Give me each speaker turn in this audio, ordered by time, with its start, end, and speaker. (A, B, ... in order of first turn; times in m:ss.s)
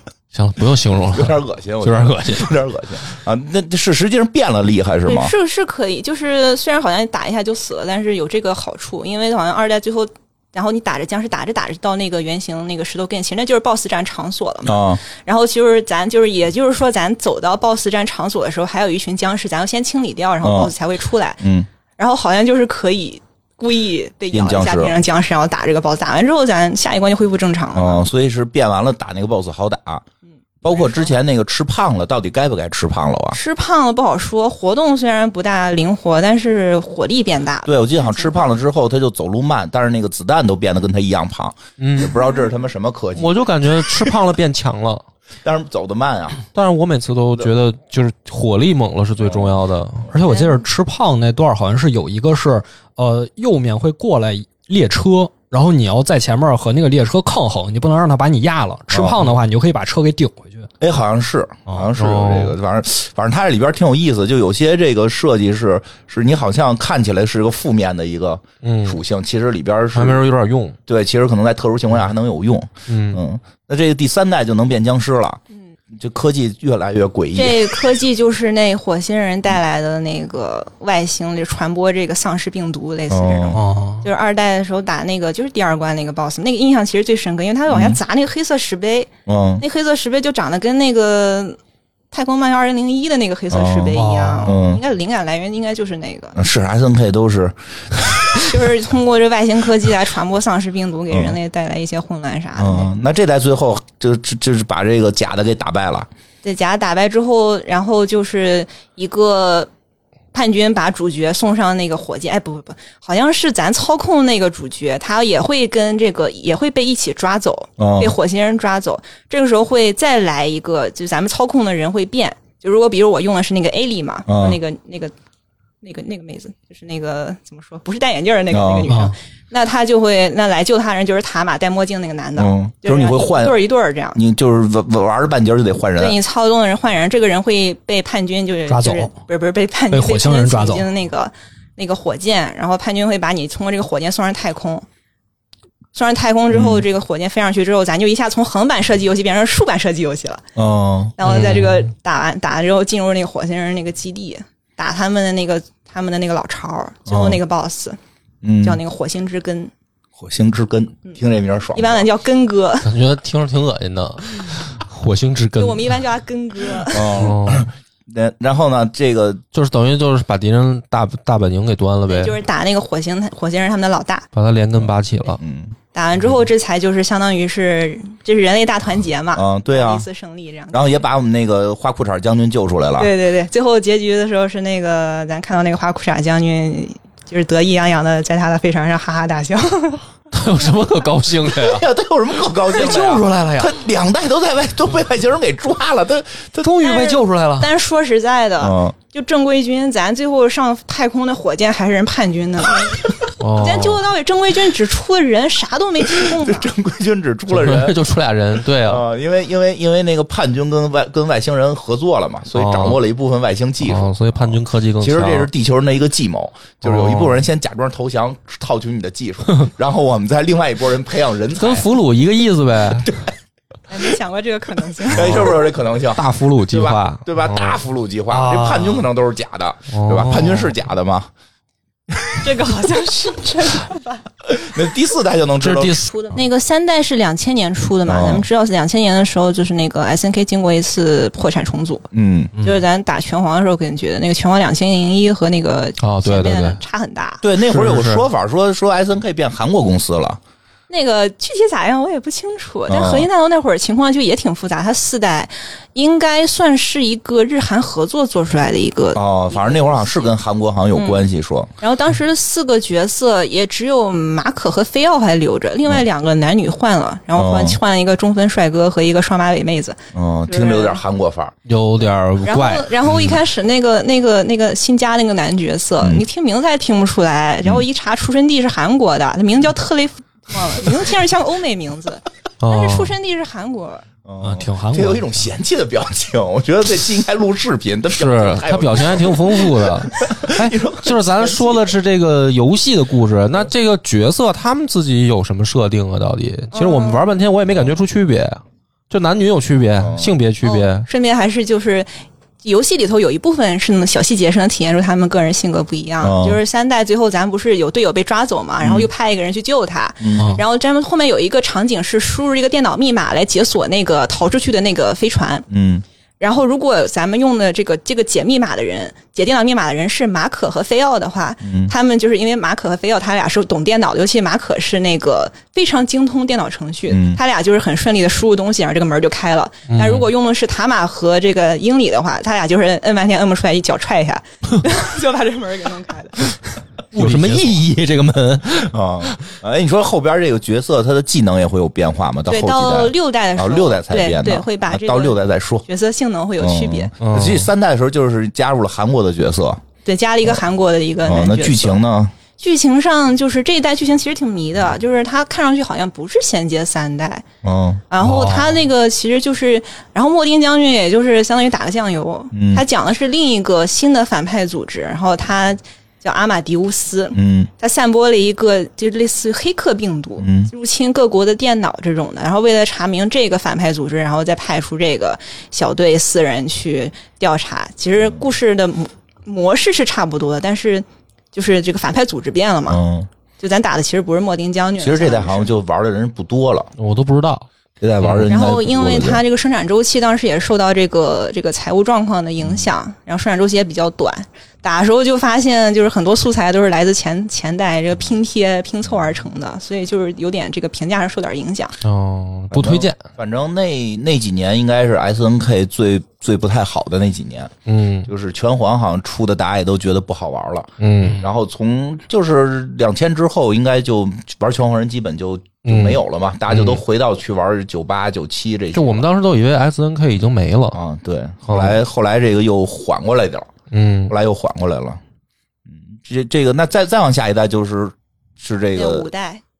0:00.3-0:02.6 A
0:01.1-0:05.3 B
0:05.0-0:21.4 C
0:14.6-0:15.0 B
0:20.4-0:20.7 B
0:21.4-0:21.7 B
0:22.0-0:28.0 C
0:24.3-0:25.0 B
0:27.7-0:30.0 B
0:30.6-0:33.4 B
0:30.8-0:31.1 C
0:33.3-0:38.4 C
0:37.6-0:43.4 B
0:41.8-0:42.2 A
0:43.1-0:45.0 A
0:45.4-0:46.4 B
0:46.5-0:50.1 A
0:49.2-0:49.5 B
0:50.1-1:00.7 D
0:50.2-0:50.6 C
0:58.9-0:59.2 B
1:00.8-1:10.2 B
1:02.0-1:02.6 A
1:08.6-1:09.0 A
1:09.9-1:10.8 A
1:10.9-1:15.4 B
1:12.9-1:13.2 A
1:15.9-1:17.7 B
1:17.3-1:31.6 C
1:23.1-1:23.6 B
1:23.5-1:24.1 D
1:27.7-1:28.0 B
1:29.2-1:29.6 B
1:32.1-1:36.4 C
1:33.5-1:34.8 B
1:33.9-1:34.6 D
1:36.4-1:38.5 B
1:38.4-1:42.9 C
1:41.1-1:41.4 B
1:42.6-1:46.1 B
1:46.4-1:49.7 C
1:50.3-2:05.1 C
1:57.8-1:58.1 B
2:04.3-2:04.6 B
2:05.8-2:14.2 C
2:08.5-2:08.9 B
2:08.9-2:09.1 D
2:12.4-2:13.6 B
2:14.1-2:16.2 B
2:16.0-2:24.8 C
2:18.7-2:19.1 D
2:19.9-2:20.9 D
2:25.9-2:30.4 C
2:26.5-2:26.8 B
2:30.6-2:31.2 B
2:31.2-2:38.0 C
2:31.2-2:31.8 A
2:37.1-2:37.4 B
2:38.4-2:38.8 B
2:38.6-2:39.7 C
2:40.2-2:42.1 B
2:41.7-2:42.9 C
2:42.8-2:46.0 A
2:45.6-2:47.2 C
2:46.9-2:49.4 B
2:47.1-2:47.7 A
2:49.5-2:52.4 A
2:52.1-2:54.3 C
2:54.3-2:55.4 A
2:54.8-2:55.7 B
2:55.9-3:01.0 C
2:59.3-3:00.0 B
3:00.7-3:03.1 B
3:03.0-3:10.0 C
3:10.3-3:11.8 A
3:11.5-3:16.7 B
3:12.7-3:13.8 D
3:16.6-3:17.7 D
3:16.8-3:23.0 C
3:18.6-3:18.9 B
3:23.4-3:24.0 A
3:23.5-3:26.7 C
3:26.1-3:28.0 B
3:27.5-3:29.0 A
3:28.8-3:41.9 B
3:32.5-3:33.0 A
3:33.8-3:35.5 A
3:36.8-3:37.4 A
3:41.6-3:43.1 A
3:43.0-3:43.3 B
3:43.9-3:45.6 C
3:45.0-3:51.3 B
3:45.2-3:45.5 A
3:46.1-3:47.8 A
3:48.3-3:49.1 D
3:49.9-3:50.7 A
3:52.4-3:54.2 C
3:54.5-3:56.0 B
3:55.6-3:56.1 A
3:56.1-4:07.4 C
3:58.0-3:58.4 B
4:02.1-4:02.5 B
4:02.6-4:02.8 D
4:06.0-4:06.8 A
4:07.4-4:10.4 B
4:07.6-4:08.2 A
4:10.9-4:20.3 C
4:12.9-4:13.3 B
4:19.1-4:21.7 B
4:20.9-4:21.2 C
4:21.8-4:31.0 C
4:27.4-4:27.8 B
4:30.1-4:31.5 B
4:31.6-4:33.1 A
4:32.4-4:44.0 C
4:42.6-4:43.1 A
4:44.2-4:51.9 B
4:44.4-4:45.5 D
4:48.1-5:01.1 A
4:56.7-4:57.3 C
5:00.0-5:00.3 B
5:00.6-5:02.1 C
5:02.6-5:15.6 C
5:06.2-5:06.6 B
5:08.8-5:09.1 B
5:10.2-5:10.5 B
5:10.4-5:10.6 D
5:15.7-5:16.0 B
5:16.4-5:36.6 C
5:21.6-5:21.9 B
5:27.1-5:27.4 B
5:29.9-5:30.3 A
5:37.1-5:39.5 A
5:37.2-5:37.7 D
5:38.9-5:45.8 B
5:42.5-5:47.1 C
5:46.6-5:49.8 B
5:47.2-5:47.7 A
5:50.0-5:52.0 C
5:51.2-5:52.3 B
5:52.6-5:57.4 C
5:57.6-5:58.0 B
5:58.1-6:23.0 C
5:58.2-5:58.8 D
6:02.5-6:02.8 B
6:07.3-6:07.7 B
6:10.4-6:10.7 B
6:22.9-6:23.3 B
6:23.6-6:25.7 C
6:25.0-6:26.9 B
6:27.0-6:27.6 A
6:28.0-6:29.4 B
6:28.2-6:28.5 A
6:28.5-6:42.0 C
6:42.0-6:43.2 A
6:42.7-6:47.7 B
6:47.9-6:48.3 A
6:48.2-6:59.2 B
6:51.0-6:51.4 A
6:55.8-6:57.0 A
6:58.9-7:01.0 A
7:00.9-7:03.7 B
7:01.7-7:02.0 A
7:03.9-7:04.3 A
7:04.3-7:05.2 B
7:05.9-7:09.3 B
7:08.9-7:09.6 C